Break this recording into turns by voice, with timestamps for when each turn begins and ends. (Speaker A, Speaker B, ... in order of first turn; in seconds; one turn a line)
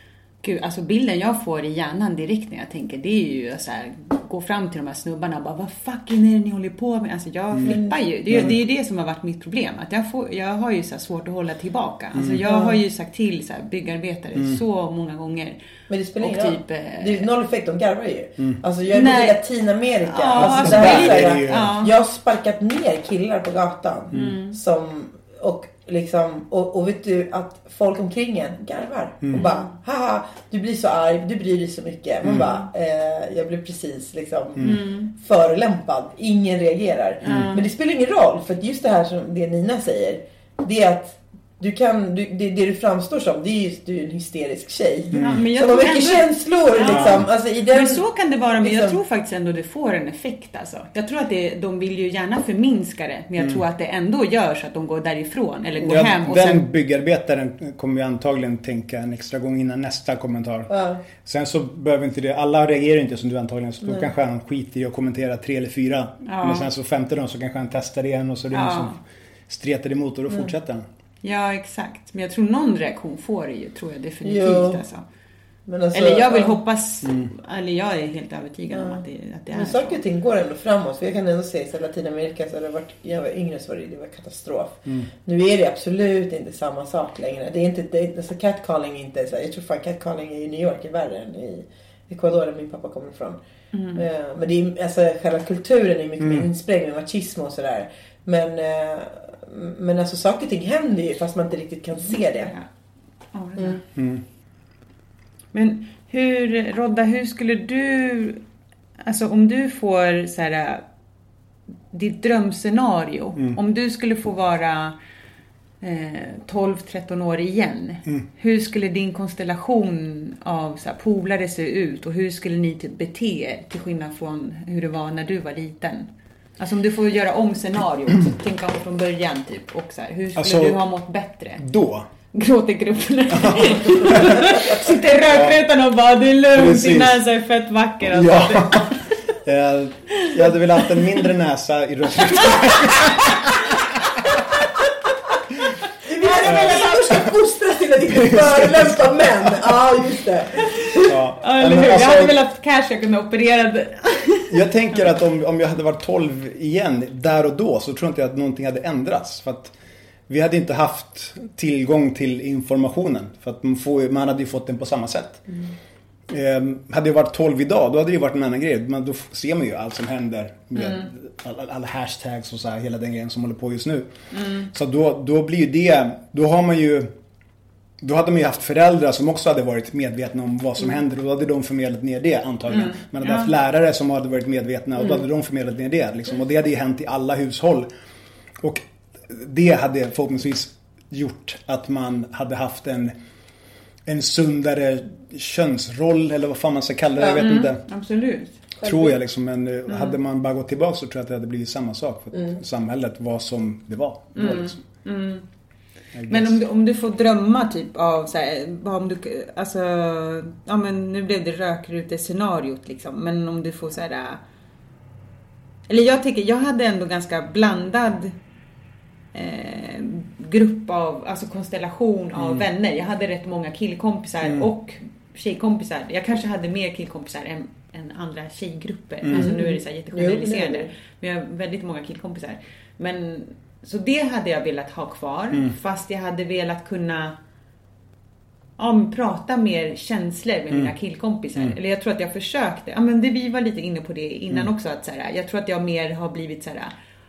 Speaker A: 0.4-15.6
Speaker B: 7.7-8.5
Speaker C: 8.3-8.5
Speaker C: 12.1-12.4
Speaker B: 12.4-12.8
Speaker C: 14.3-14.6
Speaker B: 15.9-48.0
Speaker A: 16.2-17.3
Speaker A: 18.9-19.4
Speaker A: 20.0-21.9
Speaker C: 20.4-21.8
Speaker C: 24.1-24.4
Speaker A: 24.1-24.6
Speaker A: 29.3-29.7
Speaker C: 32.2-32.5
Speaker A: 34.6-35.1
Speaker A: 37.2-37.7
Speaker C: 37.2-37.5
Speaker C: 45.1-45.4
Speaker A: 45.1-56.7
Speaker C: 46.9-47.2
Speaker B: 48.6-49.0
Speaker C: 55.8-70.8
Speaker B: 60.7-61.0
Speaker A: 66.2-66.7
Speaker A: 68.5-69.0
Speaker A: 71.2-75.0
Speaker B: 74.2-74.8
Speaker B: 75.7-76.5
Speaker A: 75.9-80.0
Speaker C: 77.0-77.3
Speaker B: 78.7-79.0
Speaker B: 79.5-93.4
Speaker A: 93.7-94.0
Speaker B: 93.9-102.5
Speaker C: 96.2-96.5
Speaker A: 102.1-102.7
Speaker A: 103.3-103.8
Speaker C: 103.9-104.2
Speaker A: 105.5-108.4
Speaker A: 109.0-110.8
Speaker A: 111.9-115.0
Speaker A: 115.8-131.6
Speaker C: 130.3-130.8
Speaker C: 131.6-132.1
Speaker A: 132.3-139.0
Speaker C: 133.3-134.7
Speaker C: 135.3-135.6
Speaker C: 136.5-137.2
Speaker C: 138.1-143.7
Speaker B: 146.0-151.1
Speaker A: 146.2-147.1
Speaker C: 146.4-146.9
Speaker C: 148.1-149.8
Speaker C: 151.1-152.4
Speaker A: 151.4-154.5
Speaker C: 154.5-159.7
Speaker C: 160.3-165.4
Speaker C: 166.3-174.1
Speaker A: 170.8-171.1
Speaker A: 174.3-174.7
Speaker C: 174.7-177.1
Speaker C: 178.0-187.9
Speaker A: 182.7-183.5
Speaker C: 188.6-193.1
Speaker C: 194.1-197.8
Speaker A: 197.3-198.6
Speaker B: 198.8-199.1
Speaker C: 198.8-204.8
Speaker A: 199.9-200.2
Speaker A: 204.3-205.4
Speaker C: 206.1-206.6
Speaker A: 206.3-214.4
Speaker A: 215.9-218.3
Speaker A: 219.3-237.4
Speaker C: 222.3-222.7
Speaker C: 224.4-224.7
Speaker B: 229.3-230.9
Speaker A: 238.8-246.9